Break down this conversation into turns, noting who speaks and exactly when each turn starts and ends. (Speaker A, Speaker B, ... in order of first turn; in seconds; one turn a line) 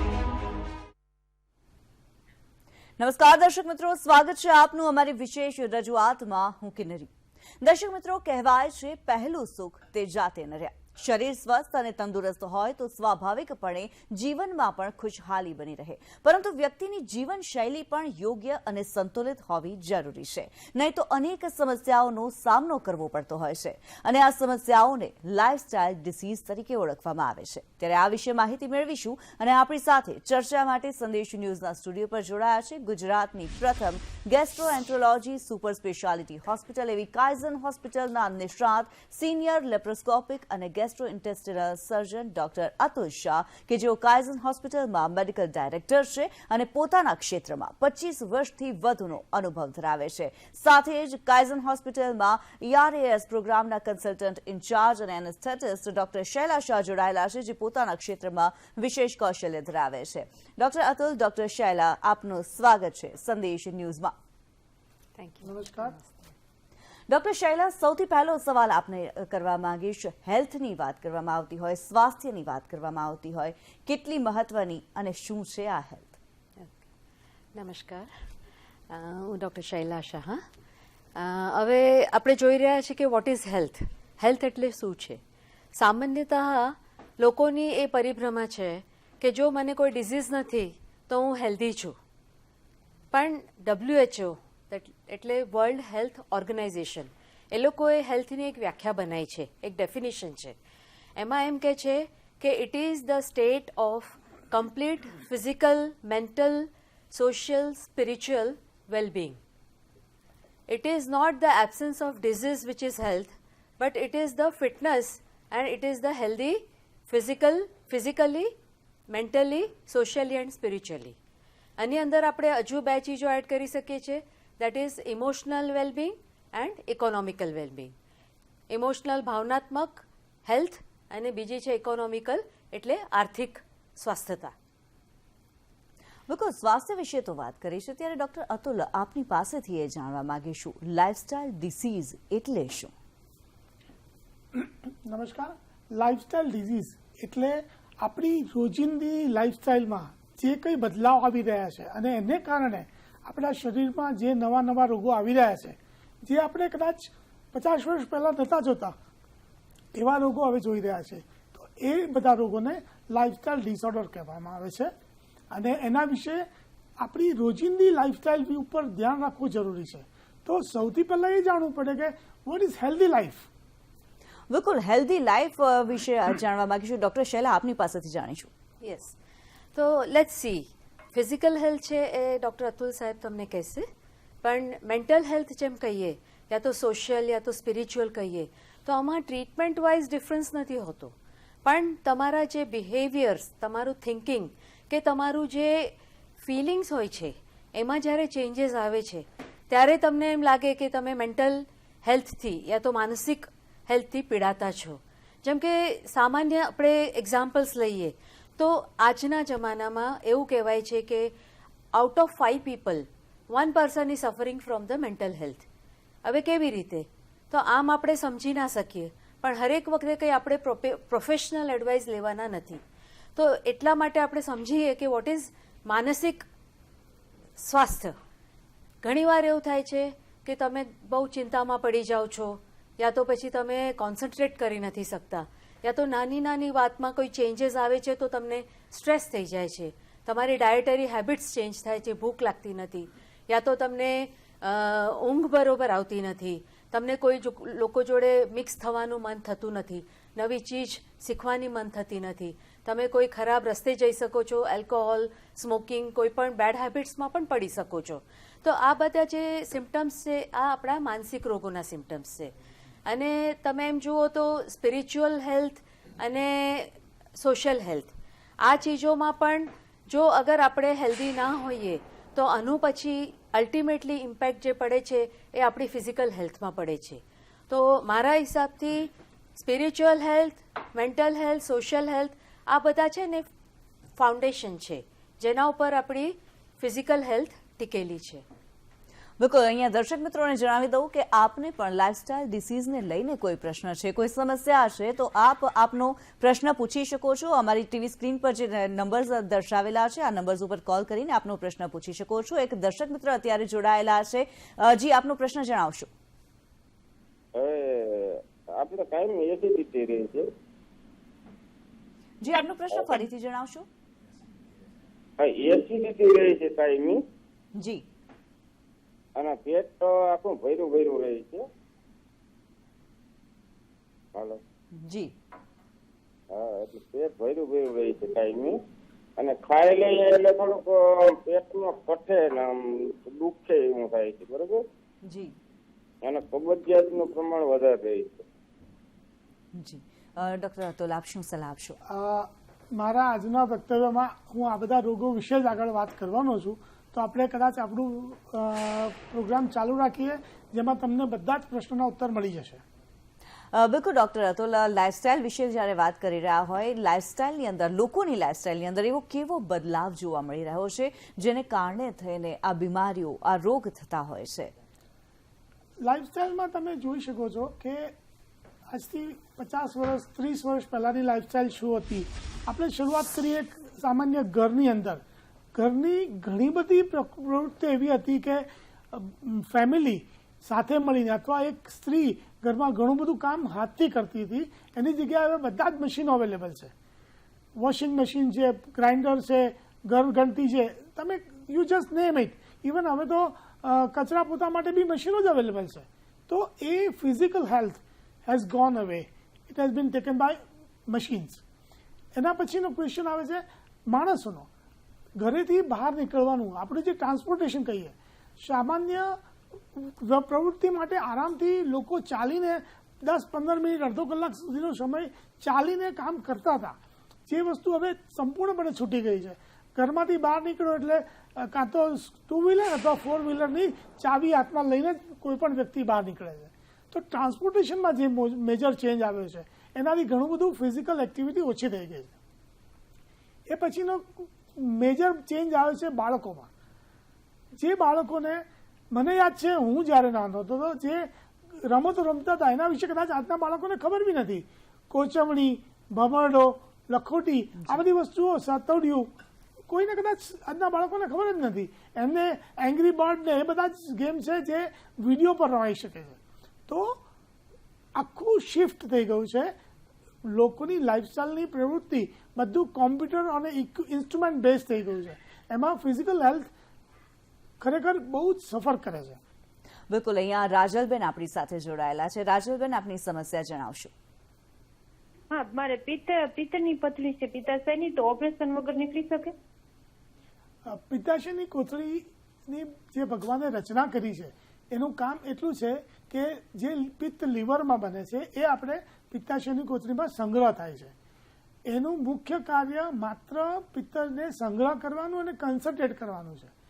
Speaker A: 3.0-64.1
Speaker B: 65.2-66.2
Speaker C: 65.4-65.9
Speaker A: 67.1-76.2
Speaker B: 76.6-76.8
Speaker B: 77.5-78.1
Speaker B: 78.9-80.4
Speaker B: 81.1-85.2
Speaker B: 85.8-92.0
Speaker B: 93.1-100.5
Speaker B: 101.2-109.4
Speaker B: 110.7-118.5
Speaker B: 119.1-121.2
Speaker B: 121.8-127.9
Speaker B: 128.7-134.5
Speaker A: 136.3-142.9
Speaker C: 144.5-159.0
Speaker C: 159.9-164.9
Speaker C: 165.5-166.5
Speaker C: 167.0-173.5
Speaker A: 174.5-178.5
Speaker B: 178.8-179.2
Speaker B: 179.8-183.9
Speaker B: 184.4-211.3
Speaker B: 211.9-215.7
Speaker B: 216.2-222.8
Speaker B: 223.4-226.5
Speaker B: 227.6-228.2
Speaker B: 229.0-262.5
Speaker B: 263.1-283.4
Speaker B: 284.2-288.4
Speaker A: 289.4-306.1
Speaker D: 307.6-310.4
Speaker A: 312.4-313.9
Speaker D: 315.4-317.2
Speaker A: 317.8-318.0
Speaker D: 319.4-321.6
Speaker D: 324.3-324.6
Speaker A: 324.9-325.3
Speaker D: 326.5-328.8
Speaker D: 329.4-334.8
Speaker A: 335.2-335.5
Speaker D: 336.2-338.4
Speaker A: 339.7-342.0
Speaker C: 342.1-352.8
Speaker A: 353.7-364.7
Speaker C: 366.0-368.1
Speaker C: 368.9-375.2
Speaker C: 375.8-386.9
Speaker C: 387.8-401.6
Speaker C: 402.3-404.7
Speaker C: 405.4-416.9
Speaker C: 417.5-432.3
Speaker C: 433.7-436.7
Speaker C: 437.8-441.3
Speaker C: 441.8-449.3
Speaker C: 449.9-457.2
Speaker C: 458.1-459.7
Speaker C: 460.4-466.7
Speaker C: 467.8-469.4
Speaker A: 470.1-474.1
Speaker E: 475.5-479.5
Speaker C: 480.9-491.1
Speaker C: 491.9-496.7